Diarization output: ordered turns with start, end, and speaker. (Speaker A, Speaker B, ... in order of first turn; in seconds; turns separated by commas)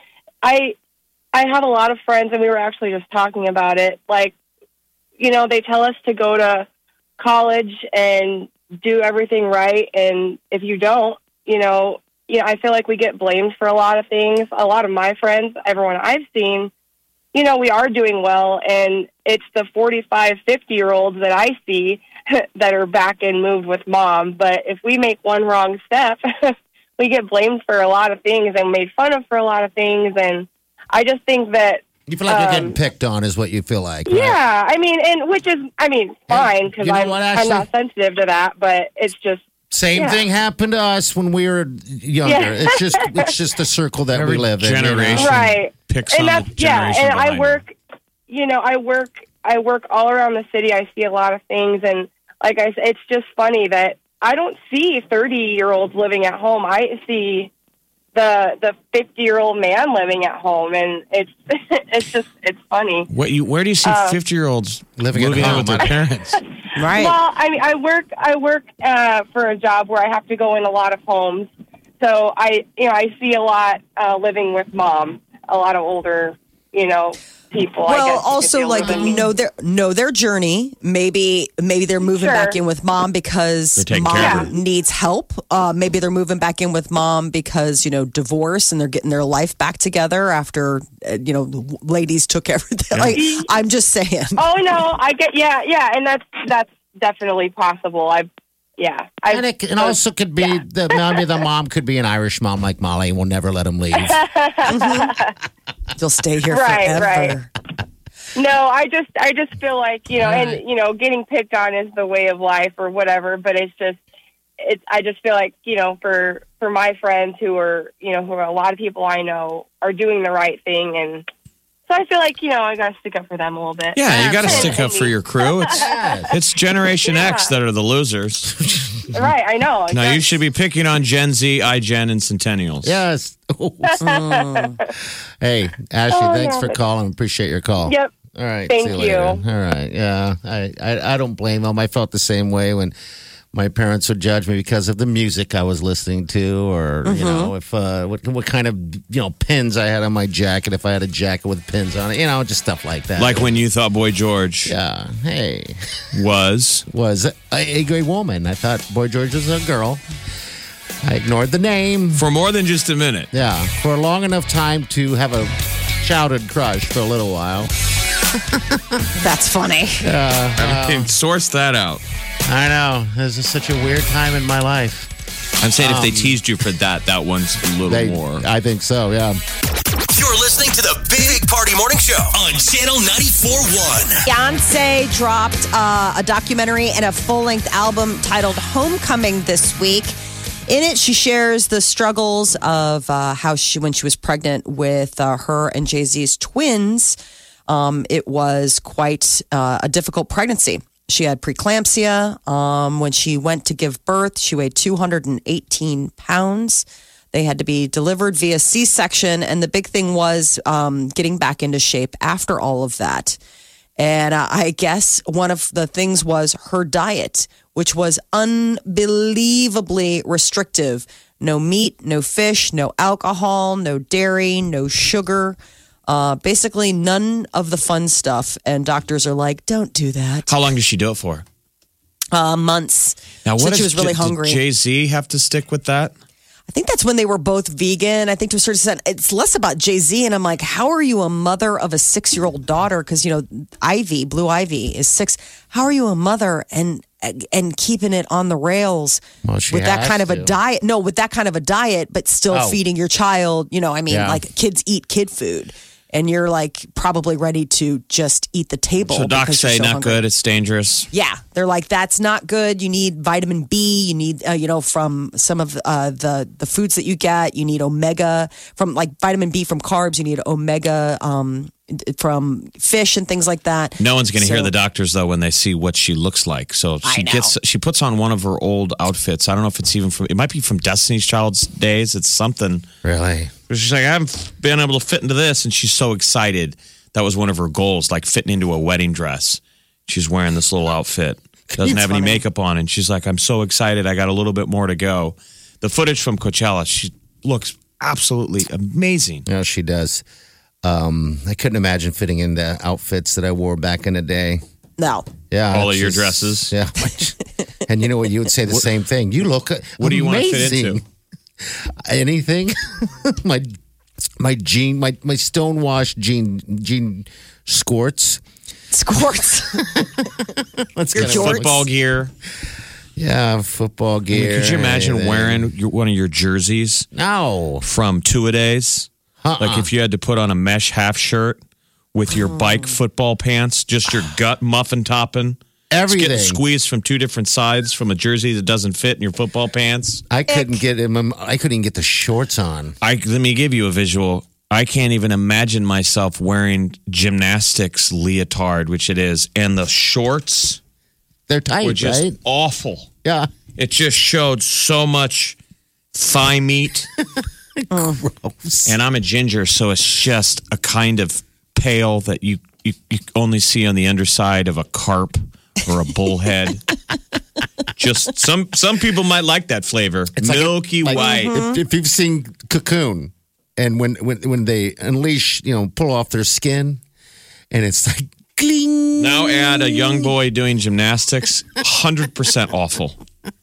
Speaker A: 0.4-0.8, Speaker A: 1.3-4.3, Speaker A: 5.2-6.7, Speaker A: 7.2-16.7, Speaker A: 17.3-32.8, Speaker B: 32.1-34.4, Speaker A: 34.1-39.4, Speaker B: 36.3-37.7, Speaker B: 39.7-45.6, Speaker A: 40.0-40.2, Speaker A: 42.2-43.3, Speaker C: 44.1-47.6, Speaker A: 45.2-47.8, Speaker A: 48.3-57.5, Speaker A: 58.1-63.1, Speaker C: 63.1-66.4, Speaker A: 63.8-64.2, Speaker B: 65.0-66.1, Speaker D: 66.8-67.2, Speaker A: 66.9-79.3, Speaker D: 77.9-94.4, Speaker A: 82.1-82.6, Speaker C: 83.8-84.5, Speaker A: 84.2-84.5, Speaker A: 93.1-93.5, Speaker A: 94.4-100.0, Speaker B: 99.3-104.2, Speaker A: 100.5-101.2, Speaker A: 103.9-105.3, Speaker D: 104.7-105.1, Speaker D: 106.0-107.5, Speaker A: 106.5-107.4, Speaker A: 108.4-114.0, Speaker D: 110.3-110.5, Speaker A: 114.6-121.3, Speaker A: 121.9-126.3, Speaker C: 124.0-128.5, Speaker B: 124.1-124.9, Speaker B: 125.6-126.3, Speaker A: 127.0-127.5, Speaker B: 128.7-129.3, Speaker A: 129.1-130.3, Speaker C: 129.9-133.0, Speaker B: 132.8-134.0, Speaker A: 133.8-134.9, Speaker D: 134.0-134.8, Speaker B: 135.4-142.9, Speaker A: 136.1-136.8, Speaker A: 137.8-138.1, Speaker A: 138.7-139.4, Speaker B: 143.5-153.5, Speaker D: 147.1-147.5, Speaker C: 153.2-154.7, Speaker B: 154.7-156.1, Speaker C: 156.1-156.8, Speaker B: 156.9-160.0, Speaker B: 161.0-162.2, Speaker C: 162.2-163.3, Speaker B: 163.3-167.7, Speaker B: 168.3-169.0, Speaker D: 169.2-170.1, Speaker B: 170.0-171.1, Speaker C: 170.6-172.0, Speaker B: 172.5-175.1, Speaker C: 175.6-178.4, Speaker B: 175.8-176.4, Speaker B: 177.9-179.4, Speaker E: 180.1-184.2, Speaker D: 184.3-190.2, Speaker D: 190.7-197.2, Speaker D: 197.7-213.4, Speaker D: 214.0-230.5, Speaker C: 230.5-231.4, Speaker D: 232.3-234.6, Speaker C: 233.4-236.1, Speaker D: 236.7-260.2, Speaker B: 249.4-250.5, Speaker B: 252.5-252.8, Speaker B: 254.1-254.4, Speaker C: 259.1-261.1, Speaker D: 261.1-274.7, Speaker C: 274.0-282.9, Speaker D: 277.0-277.5, Speaker B: 283.0-283.5, Speaker C: 283.7-299.4, Speaker B: 291.7-292.4, Speaker B: 299.5-300.2, Speaker B: 300.8-304.6, Speaker D: 305.0-305.3, Speaker B: 305.5-311.0, Speaker C: 305.7-306.7, Speaker C: 310.0-311.0, Speaker B: 311.7-313.7, Speaker B: 314.4-318.4, Speaker D: 318.9-319.9, Speaker B: 319.7-321.9, Speaker D: 321.1-321.8, Speaker C: 321.2-322.3, Speaker B: 323.2-325.7, Speaker C: 324.3-327.1, Speaker B: 327.1-327.9, Speaker C: 327.8-331.6, Speaker B: 329.4-329.9, Speaker C: 332.1-335.6, Speaker D: 332.5-332.9, Speaker B: 335.9-336.6, Speaker C: 336.1-340.2, Speaker B: 340.3-343.0, Speaker D: 340.5-340.8, Speaker C: 343.0-350.8, Speaker B: 351.5-352.4, Speaker C: 351.8-353.1, Speaker B: 353.2-353.5, Speaker C: 353.8-355.6, Speaker C: 356.1-357.1, Speaker B: 357.8-358.9, Speaker C: 358.9-366.8, Speaker C: 368.0-371.5, Speaker B: 370.4-377.0, Speaker D: 371.2-371.8, Speaker B: 377.7-380.3, Speaker C: 379.2-383.2